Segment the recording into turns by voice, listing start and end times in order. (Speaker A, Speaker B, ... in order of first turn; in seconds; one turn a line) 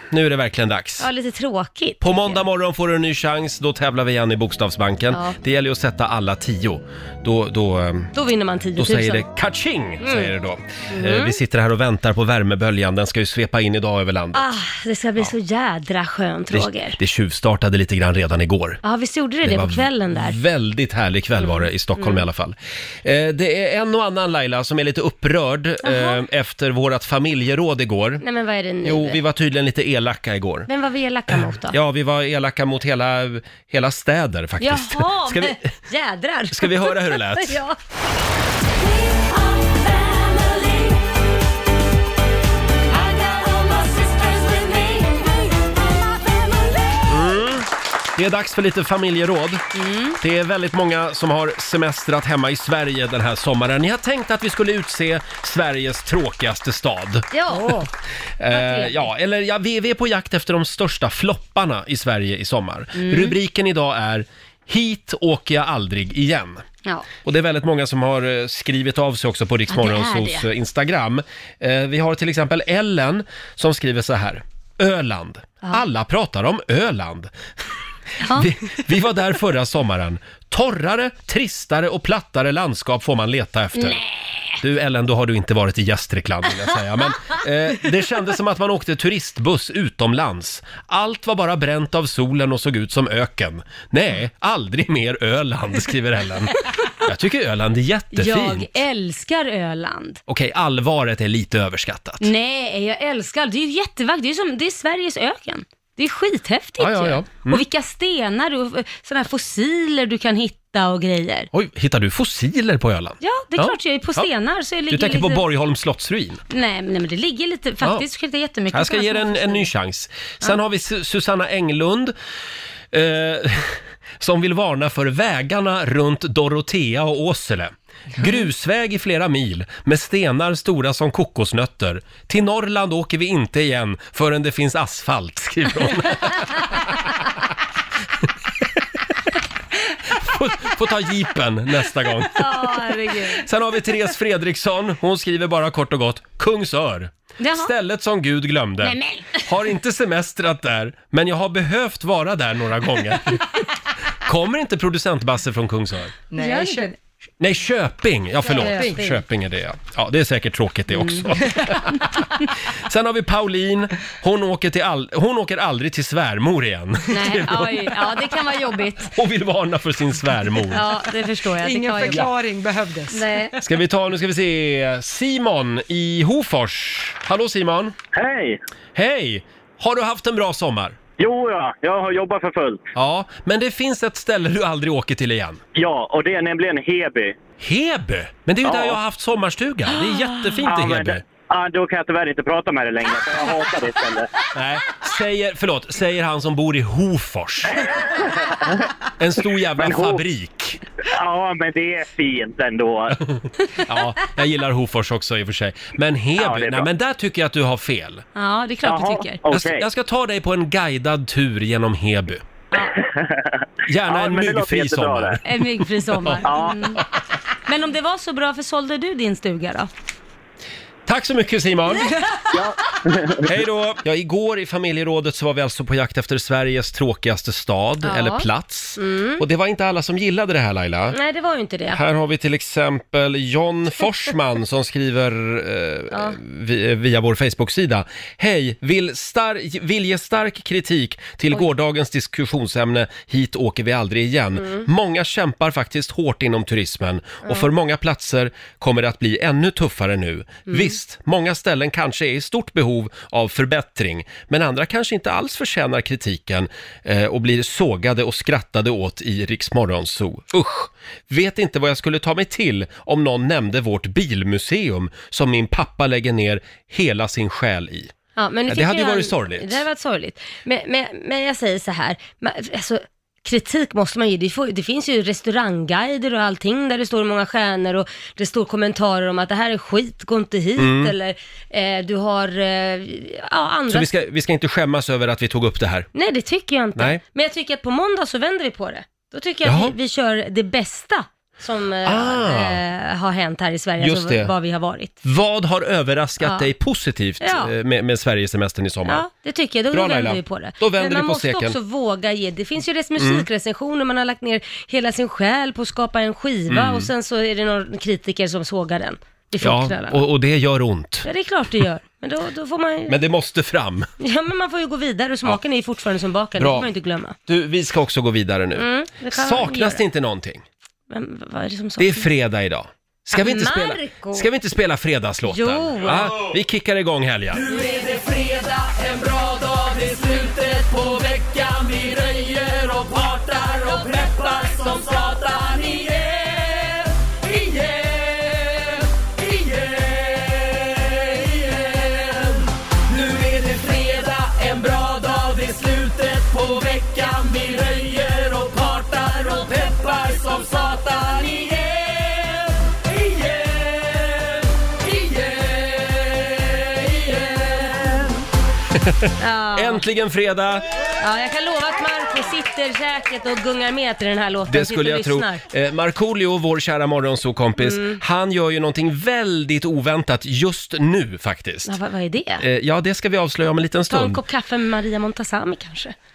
Speaker A: 0.1-1.1
Speaker B: 1.0-2.4
Speaker A: 2.0-8.1
Speaker B: 5.1-5.4
Speaker B: 8.1-9.2
Speaker A: 8.8-14.4
Speaker B: 10.0-10.3
Speaker B: 10.9-11.4
Speaker B: 14.3-17.0
Speaker A: 16.5-18.8
Speaker B: 18.8-20.4
Speaker A: 19.4-28.2
Speaker B: 21.4-22.2
Speaker B: 25.8-26.2
Speaker B: 28.2-29.2
Speaker A: 28.8-30.7
Speaker B: 30.7-31.8
Speaker A: 31.3-35.7
Speaker B: 34.6-37.8
Speaker A: 36.5-37.6
Speaker C: 40.1-40.5
Speaker C: 43.1-44.7
Speaker A: 47.0-49.6
Speaker B: 49.7-50.2
Speaker A: 50.2-57.3
Speaker B: 57.3-57.9
Speaker D: 57.5-57.9
Speaker A: 58.4-66.6
Speaker B: 58.5-59.0
Speaker B: 63.0-63.4
Speaker A: 67.2-77.3
Speaker B: 69.7-70.5
Speaker B: 78.2-78.5
Speaker A: 78.3-84.0
Speaker B: 83.8-84.1
Speaker A: 84.6-98.7
Speaker B: 98.1-100.2
Speaker A: 100.3-102.3
Speaker B: 102.2-111.5
Speaker A: 106.8-107.6
Speaker A: 111.5-114.3
Speaker B: 113.2-115.5
Speaker A: 114.9-116.4
Speaker B: 116.5-119.7
Speaker A: 118.7-122.1
Speaker A: 122.9-137.1
Speaker A: 140.1-142.7
Speaker B: 142.3-143.4
Speaker A: 143.3-153.4
Speaker B: 147.4-147.7
Speaker B: 148.8-149.5
Speaker A: 154.2-156.1
Speaker D: 156.3-156.9
Speaker B: 156.4-156.9
Speaker A: 157.4-168.1
Speaker B: 158.4-159.2
Speaker D: 158.6-159.0
Speaker B: 160.9-161.3
Speaker B: 167.1-169.1
Speaker A: 169.1-170.8
Speaker B: 170.7-172.3
Speaker D: 171.5-173.5
Speaker B: 173.1-173.6
Speaker A: 173.6-177.9
Speaker E: 178.1-178.6
Speaker A: 178.9-181.0
Speaker E: 181.2-182.8
Speaker A: 182.9-185.6
Speaker E: 185.7-187.3
Speaker A: 187.6-191.2
Speaker E: 188.6-189.0
Speaker E: 190.7-194.3
Speaker A: 194.5-197.9
Speaker A: 199.2-200.8
Speaker E: 199.8-200.2
Speaker E: 201.1-203.2
Speaker A: 203.8-208.2
Speaker E: 206.4-206.9
Speaker B: 208.3-209.4
Speaker E: 208.8-209.8
Speaker A: 209.5-212.4
Speaker E: 213.0-213.4
Speaker A: 213.8-215.4
Speaker E: 214.1-215.4
Speaker B: 215.4-217.0
Speaker E: 216.4-216.9
Speaker B: 217.7-219.9
Speaker A: 221.1-222.2
Speaker E: 222.5-223.3
Speaker A: 223.4-231.2
Speaker B: 228.0-229.4
Speaker B: 231.1-232.0
Speaker A: 231.9-268.1
Speaker B: 236.1-236.4
Speaker B: 250.7-250.9
Speaker B: 268.4-284.1
Speaker A: 268.7-269.8
Speaker A: 280.8-281.1
Speaker A: 283.9-286.1
Speaker B: 286.1-295.1
Speaker A: 289.6-289.9
Speaker A: 292.0-292.8
Speaker A: 294.0-294.5
Speaker A: 295.2-299.2
Speaker B: 296.4-296.7
Speaker B: 297.4-297.7
Speaker B: 299.0-310.2
Speaker A: 299.9-301.8
Speaker A: 303.2-303.4
Speaker A: 306.7-307.1
Speaker A: 309.6-311.3
Speaker B: 311.2-313.2
Speaker A: 313.1-314.1
Speaker B: 314.2-317.4
Speaker A: 316.6-316.9
Speaker A: 317.5-320.6
Speaker B: 318.8-320.0
Speaker B: 321.1-322.3
Speaker A: 322.0-327.6
Speaker B: 323.3-324.5
Speaker B: 325.5-326.4
Speaker C: 327.5-358.3
Speaker A: 359.0-360.8
Speaker B: 359.4-360.0
Speaker B: 361.2-365.6
Speaker A: 364.7-371.9
Speaker B: 367.8-368.2
Speaker B: 371.9-372.6
Speaker A: 372.6-374.4
Speaker B: 374.1-376.1